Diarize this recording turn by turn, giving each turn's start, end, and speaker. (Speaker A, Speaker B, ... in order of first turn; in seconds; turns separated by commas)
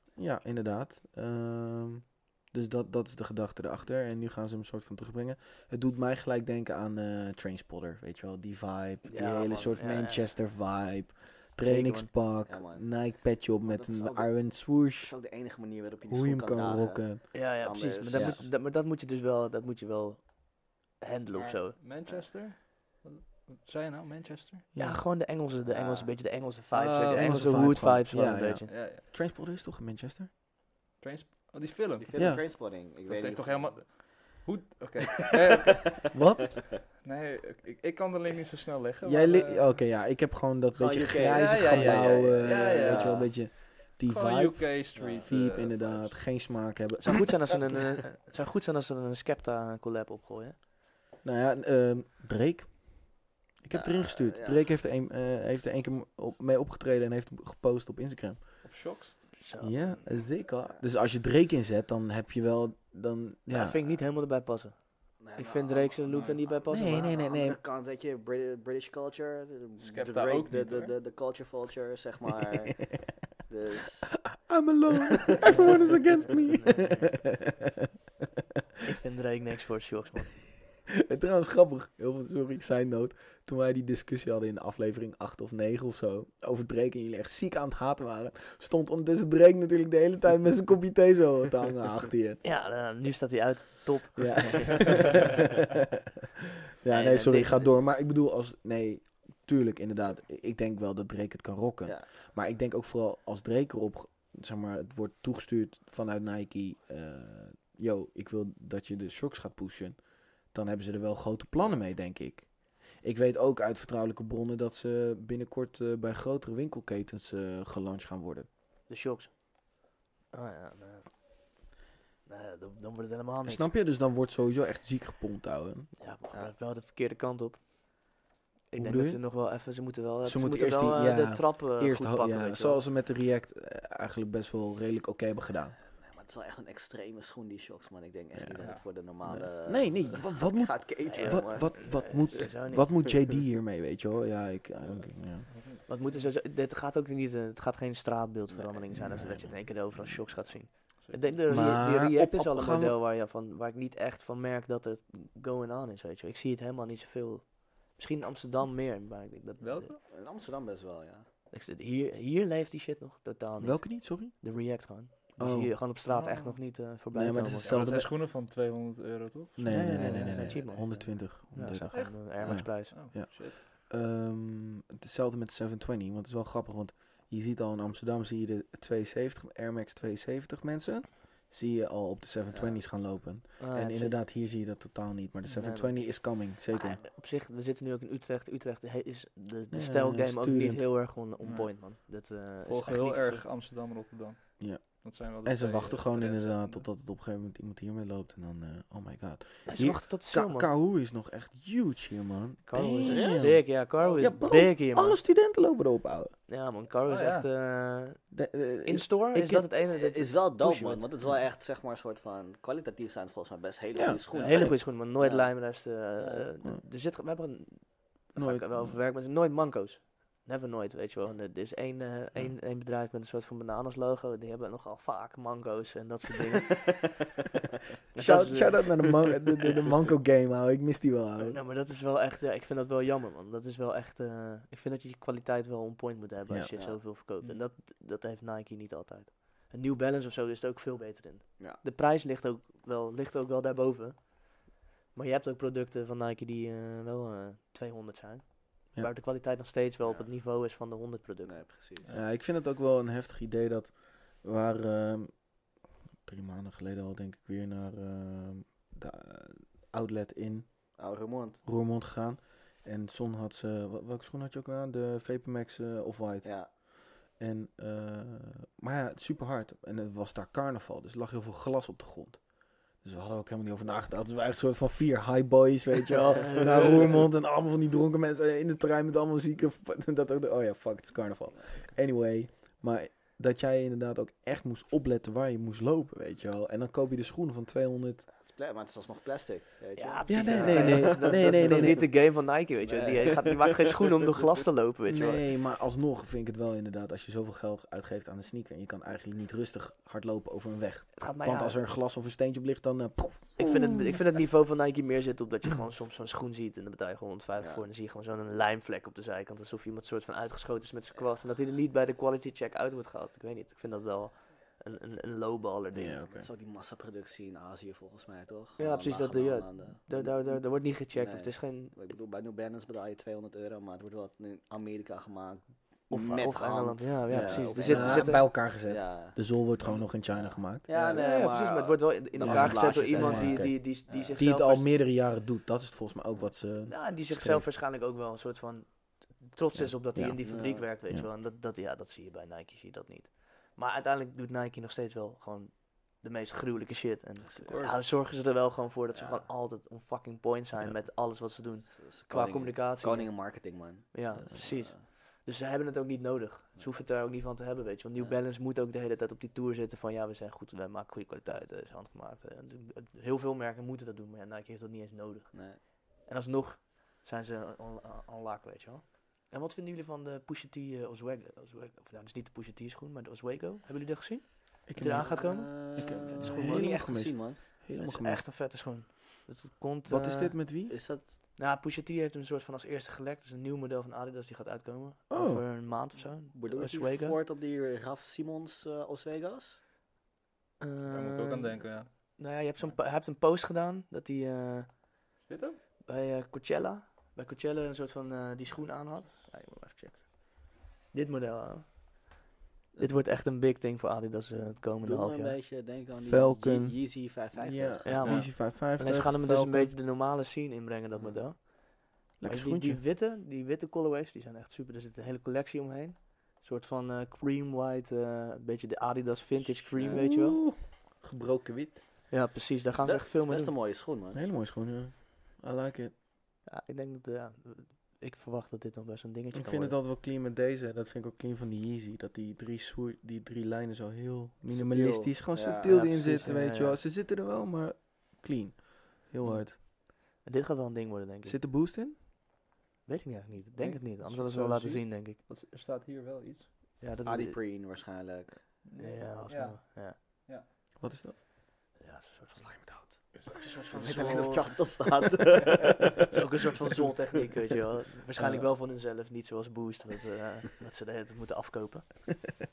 Speaker A: 0.2-15.1, Speaker B: 9.1-10.3, Speaker B: 11.6-12.1, Speaker C: 12.4-13.1, Speaker C: 13.6-18.5, Speaker A: 16.1-17.3, Speaker B: 17.3-21.8, Speaker A: 18.1-18.4, Speaker D: 21.3-24.6, Speaker A: 24.7-25.0, Speaker B: 24.8-28.7, Speaker C: 25.6-26.1, Speaker D: 26.7-27.5, Speaker A: 27.1-30.3, Speaker D: 28.7-29.0, Speaker D: 31.0-32.3, Speaker C: 32.0-33.8, Speaker A: 32.1-32.4, Speaker D: 33.1-36.2, Speaker C: 35.2-35.8, Speaker A: 36.1-36.6, Speaker D: 37.0-39.8, Speaker A: 39.0-47.4, Speaker C: 40.7-43.3, Speaker D: 41.1-46.2, Speaker C: 44.9-45.4, Speaker B: 47.0-50.6, Speaker A: 51.2-58.4, Speaker C: 53.7-54.8, Speaker D: 58.6-59.3, Speaker B: 59.4-60.0, Speaker A: 59.6-63.8, Speaker B: 63.5-67.1, Speaker C: 65.2-74.3, Speaker D: 66.1-66.4, Speaker A: 66.7-67.6, Speaker D: 69.8-70.9, Speaker A: 74.1-77.7, Speaker C: 75.1-75.7, Speaker B: 76.5-77.1, Speaker B: 78.8-80.3, Speaker A: 80.9-92.4, Speaker B: 92.4-95.3, Speaker A: 94.2-95.4, Speaker A: 96.8-110.0, Speaker B: 96.9-97.7, Speaker A: 110.5-118.5, Speaker B: 118.9-119.3, Speaker B: 120.3-121.1, Speaker B: 122.2-123.7, Speaker A: 123.4-125.9, Speaker B: 126.0-128.1, Speaker B: 128.7-132.8, Speaker A: 128.8-129.2, Speaker A: 130.2-135.8, Speaker C: 136.0-142.3, Speaker A: 139.2-145.5, Speaker B: 141.1-143.3, Speaker D: 145.5-146.3, Speaker B: 145.8-159.9, Speaker C: 148.5-149.2, Speaker A: 149.0-150.2, Speaker D: 151.0-151.3, Speaker A: 151.5-153.0, Speaker D: 159.6-160.0, Speaker C: 160.1-161.2, Speaker B: 161.5-167.8, Speaker A: 163.6-164.3, Speaker A: 165.4-165.8, Speaker D: 166.1-166.6, Speaker A: 167.1-168.1, Speaker D: 167.6-170.5, Speaker A: 169.6-187.0, Speaker B: 169.6-172.9, Speaker D: 172.7-173.6, Speaker C: 182.5-182.8, Speaker B: 183.6-184.2, Speaker B: 185.5-193.4, Speaker A: 189.7-190.9, Speaker D: 191.4-191.8, Speaker D: 192.6-196.9, Speaker A: 194.6-206.3, Speaker B: 199.7-200.7, Speaker B: 202.7-205.2, Speaker C: 203.0-203.7, Speaker D: 203.9-204.4, Speaker B: 206.5-208.3, Speaker D: 207.1-207.5, Speaker A: 208.3-209.7, Speaker B: 208.8-211.1, Speaker C: 209.9-216.5, Speaker A: 213.9-214.7, Speaker B: 214.3-227.1, Speaker A: 218.3-219.0, Speaker B: 228.1-229.2, Speaker A: 228.1-231.6, Speaker B: 231.4-251.6, Speaker C: 236.7-237.0, Speaker C: 250.0-250.3, Speaker C: 251.4-252.1, Speaker A: 252.1-255.5, Speaker A: 256.2-260.7, Speaker C: 261.0-261.6, Speaker A: 261.6-266.8, Speaker C: 266.4-266.7, Speaker A: 267.4-272.4, Speaker A: 273.0-288.3, Speaker B: 276.1-277.2, Speaker C: 288.3-292.0, Speaker B: 289.9-295.4, Speaker A: 290.3-292.1, Speaker C: 292.8-294.6, Speaker A: 295.1-304.2, Speaker B: 301.1-301.8, Speaker B: 303.6-316.2, Speaker A: 315.9-316.5, Speaker C: 316.1-334.4, Speaker B: 318.8-321.9, Speaker B: 326.1-328.5, Speaker A: 327.3-331.0, Speaker B: 330.9-334.9, Speaker A: 332.4-337.7, Speaker B: 336.9-353.5, Speaker A: 339.7-341.3, Speaker C: 340.4-340.9, Speaker C: 347.4-347.7, Speaker D: 347.6-348.0, Speaker C: 349.1-349.5, Speaker C: 351.8-355.0, Speaker B: 354.1-377.2, Speaker C: 365.5-365.8, Speaker A: 374.9-375.4, Speaker C: 375.0-377.6, Speaker A: 375.9-378.4, Speaker B: 377.7-380.6, Speaker A: 380.1-380.9, Speaker C: 380.9-381.3, Speaker B: 381.5-387.4, Speaker A: 385.3-385.6, Speaker C: 386.5-389.8, Speaker B: 390.8-395.1, Speaker D: 391.1-392.9, Speaker D: 395.4-395.8, Speaker B: 396.0-402.4, Speaker C: 402.9-403.2, Speaker B: 403.0-405.6, Speaker C: 404.6-408.2, Speaker A: 406.2-409.9, Speaker B: 408.0-420.6, Speaker D: 408.2-408.5, Speaker C: 411.1-411.4, Speaker A: 412.4-413.0, Speaker A: 420.0-422.0, Speaker B: 422.3-423.7, Speaker C: 423.0-424.4, Speaker A: 424.3-426.1, Speaker B: 426.7-430.0, Speaker A: 429.5-439.8, Speaker C: 434.7-436.4, Speaker B: 435.8-437.0, Speaker B: 440.4-441.6, Speaker A: 441.4-442.2, Speaker B: 443.1-445.4, Speaker D: 443.8-446.7, Speaker B: 447.0-447.6, Speaker C: 447.2-448.6, Speaker D: 448.8-450.6, Speaker B: 448.9-450.2, Speaker A: 451.0-451.4, Speaker B: 452.0-454.9, Speaker D: 453.4-453.8, Speaker C: 453.9-456.3, Speaker B: 456.3-462.5, Speaker A: 458.4-458.7